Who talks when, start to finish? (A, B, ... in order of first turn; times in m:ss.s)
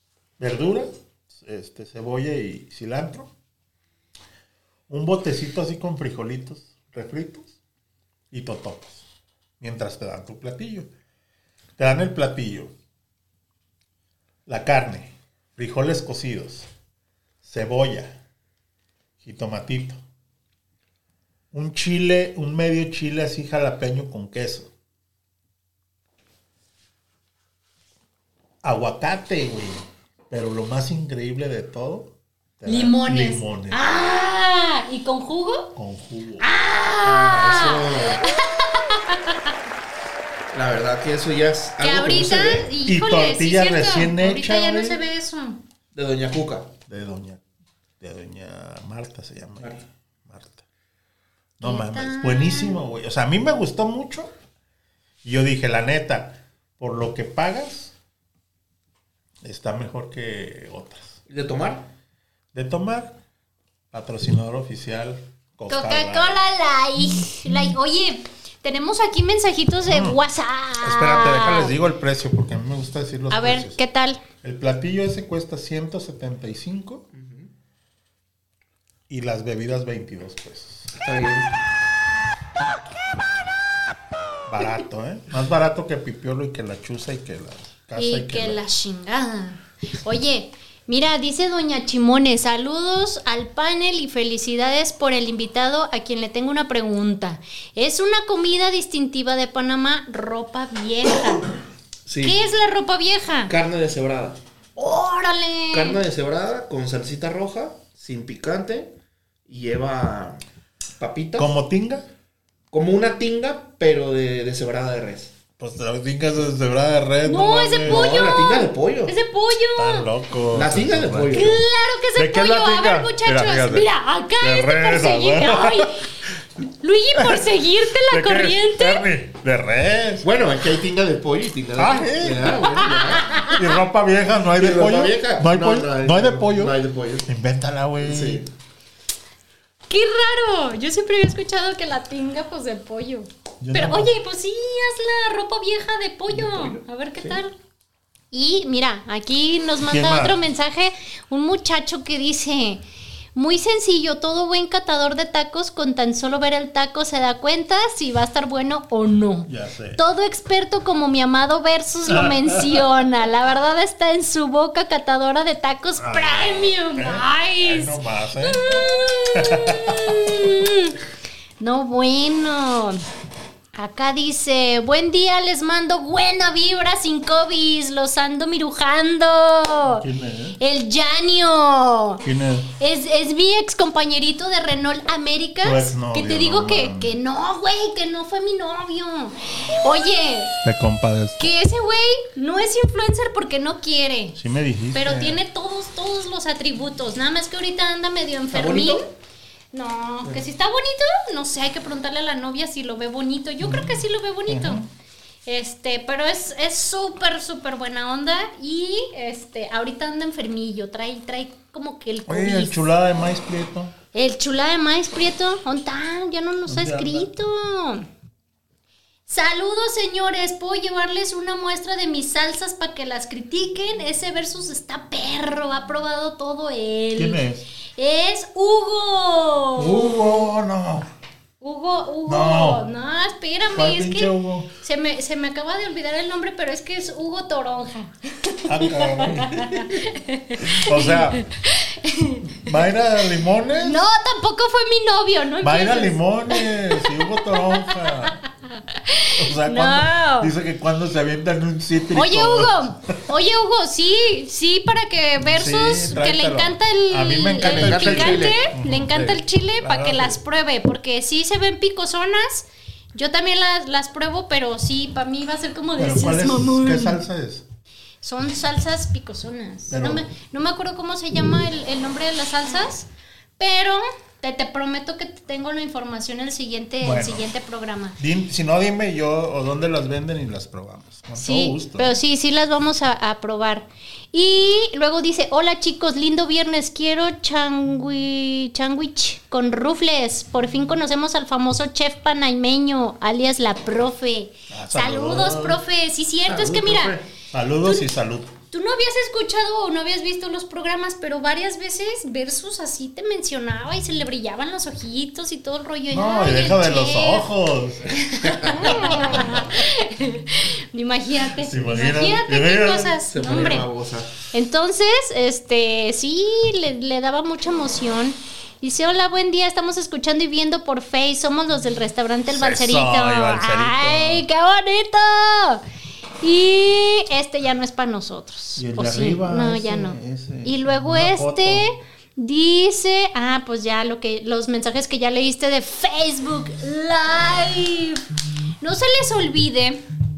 0:00.4-0:03.3 A
0:04.9-0:07.5 A
0:08.3-0:09.0 A
0:09.6-0:10.9 A
0:11.8-0:12.7 A
0:14.4-0:16.7 A
0:17.4-0:18.2 A
0:19.2-0:20.0 A
0:21.5-0:24.7 A
0:28.6-0:33.8 A
0:32.6-0:35.7 B
0:35.7-0:36.5 A
0:36.4-0:39.5 B
0:37.0-0:38.3 C
0:40.5-0:42.7 C
0:41.8-0:45.6 B
0:42.8-0:45.0 A
0:45.9-0:46.7 C
0:46.9-0:47.4 A
0:48.0-0:50.6 A
0:51.6-0:54.3 A
0:51.6-0:52.8 B
0:55.2-0:57.9 A
0:59.4-1:01.2 A
1:01.3-1:01.9 C
1:02.5-1:03.2 A
1:03.9-1:06.4 A
1:05.7-1:11.8 B
1:09.9-1:10.2 A
1:10.8-1:13.8 A
1:13.3-1:14.2 B
1:14.4-1:17.0 A
1:17.1-1:17.5 C
1:19.1-1:20.9 A
1:20.9-1:21.5 C
1:24.5-1:28.6 A
1:28.0-1:41.5 B
1:42.0-1:42.4 C
1:42.2-1:43.5 B
1:43.5-1:44.4 C
1:44.8-1:46.0 B
1:45.7-1:48.9 C
1:49.5-1:50.4 C
1:51.0-1:51.5 C
1:51.4-1:52.0 A
1:52.7-1:55.3 C
1:55.6-1:58.2 A
1:57.2-2:00.1 B
1:57.8-1:59.1 C
1:59.8-2:01.6 A
2:00.5-2:01.6 C
2:01.3-2:06.0 B
2:02.1-2:05.9 A
2:06.7-2:09.1 B
2:07.1-2:07.4 A
2:08.1-2:10.3 A
2:10.2-2:13.4 C
2:11.8-2:12.7 A
2:12.8-2:13.6 B
2:13.5-2:18.4 A
2:14.6-2:17.3 C
2:18.0-2:18.5 C
2:19.9-2:27.5 B
2:23.6-2:24.1 A
2:26.3-2:27.4 C
2:28.3-2:32.8 B
2:29.9-2:30.4 A
2:33.3-2:51.0 B
2:39.4-2:40.0 A
2:42.1-2:42.9 A
2:46.0-2:50.4 A
2:51.6-2:53.0 B
2:53.7-3:00.0 B
2:59.8-3:00.6 A
3:00.6-3:02.2 B
3:02.2-3:02.7 A
3:02.8-3:10.6 B
3:05.6-3:07.1 A
3:10.6-3:11.4 A
3:11.4-3:14.4 B
3:14.4-3:15.4 A
3:14.9-3:19.0 B
3:18.5-3:19.1 C
3:19.7-3:24.8 B
3:23.6-3:24.9 A
3:25.4-3:32.8 B
3:32.3-3:33.9 A
3:34.1-3:38.1 B
3:36.7-3:37.3 A
3:39.3-3:47.4 B
3:47.2-3:47.6 A
3:48.0-3:50.1 B
3:49.8-3:51.1 A
3:51.6-4:02.6 B
3:52.2-3:52.8 A
3:53.7-3:54.7 A
3:58.6-4:00.0 A
4:00.6-4:01.4 A
4:02.5-4:04.0 A
4:03.8-4:10.5 B
4:05.6-4:08.4 A
4:09.4-4:13.2 A
4:12.1-4:27.2 B
4:15.4-4:20.4 A
4:17.6-4:18.6 C
4:26.0-4:27.6 A
4:28.2-4:38.2 B
4:29.9-4:30.3 A
4:37.0-4:37.4 A
4:38.2-4:42.2 A
4:41.4-4:57.2 B
4:54.7-4:55.8 A
4:56.4-4:57.3 C
4:57.5-4:58.5 A
4:58.7-5:07.4 B
5:06.1-5:08.1 A
5:08.1-5:13.9 B
5:08.8-5:09.7 A
5:11.6-5:13.8 A
5:13.3-5:14.3 C
5:14.5-5:25.8 B
5:22.5-5:24.4 A
5:26.4-5:38.2 B
5:28.8-5:31.8 A
5:38.8-5:40.0 B